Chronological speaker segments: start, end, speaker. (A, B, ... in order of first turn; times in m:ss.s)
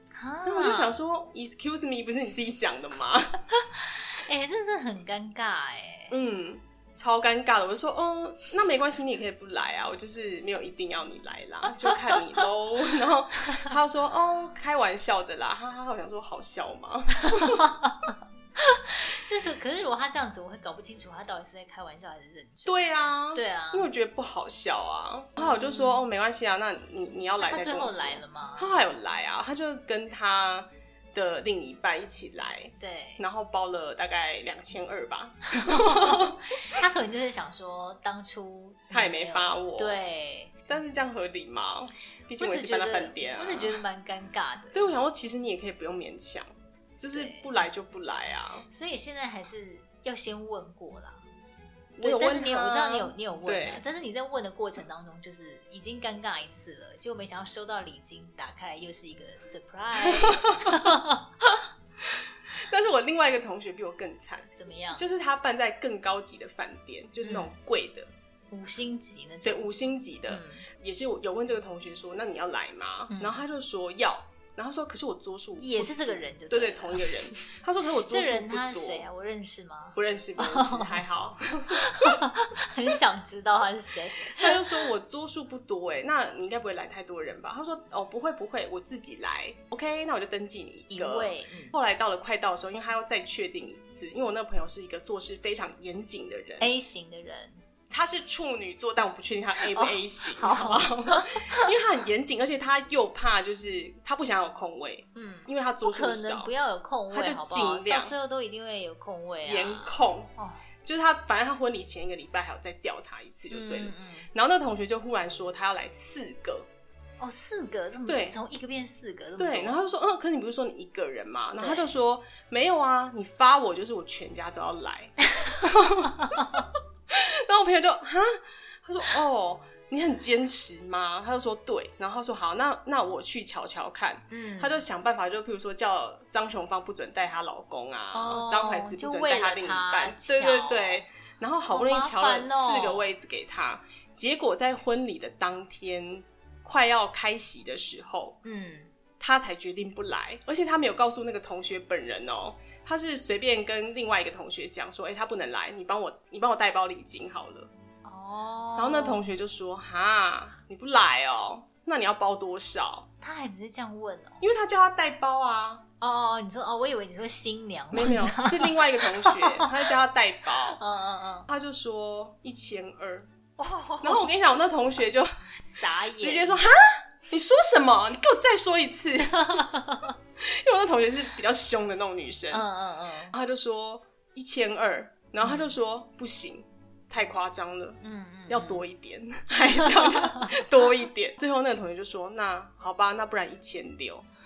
0:00.1-0:01.0 A
0:00.5-0:03.4 B
0:03.5-0:06.1 A
0:06.1-0:17.6 B
0:11.8-0:12.2 A
0:17.2-0:23.9 A
0:22.7-0:36.4 B
0:25.4-0:26.0 A
0:27.4-0:28.8 A
0:32.8-0:33.2 A
0:35.5-0:40.7 A
0:38.9-0:40.0 B
0:40.7-0:43.8 B
0:42.4-0:45.0 A
0:44.7-0:48.7 B
0:47.1-0:47.5 A
0:48.7-0:51.2 A
0:52.0-0:53.8 B
0:52.0-1:01.6 A
1:00.0-1:00.9 B
1:02.0-1:08.1 B
1:04.6-1:05.0 A
1:07.2-1:07.5 A
1:08.5-1:09.7 A
1:09.4-1:19.0 B
1:10.3-1:10.7 A
1:13.1-1:13.4 A
1:15.6-1:21.0 A
1:20.0-1:22.2 B
1:21.7-1:24.8 A
1:24.3-1:36.7 B
1:30.9-1:31.8 A
1:36.6-1:37.6 A
1:37.9-1:46.5 B
1:39.6-1:41.7 A
1:45.2-1:50.7 A
1:47.1-1:48.1 B
1:49.4-1:50.3 B
1:50.8-1:56.7 B
1:53.5-1:54.3 A
1:57.2-1:59.8 A
1:58.1-1:58.4 B
1:59.4-2:28.4 B
2:01.6-2:02.0 A
2:05.4-2:06.7 A
2:14.3-2:14.8 A
2:18.1-2:21.0 A
2:21.7-2:23.0 A
2:28.4-2:28.9 A
2:29.2-2:37.7 B
2:38.0-2:39.3 A
2:38.8-2:43.1 B
2:43.2-2:44.4 A
2:44.4-2:45.8 B
2:46.0-2:49.9 A
2:47.9-2:50.8 B
2:50.6-2:51.5 A
2:51.5-2:53.3 B
2:53.6-2:54.3 A
2:54.0-2:55.3 B
2:55.6-2:56.6 A
2:56.2-2:59.6 B
2:59.4-3:00.1 A
3:00.4-3:02.7 B
3:02.5-3:03.4 A
3:03.3-3:14.3 B
3:05.4-3:05.8 A
3:08.0-3:08.8 A
3:09.7-3:10.6 A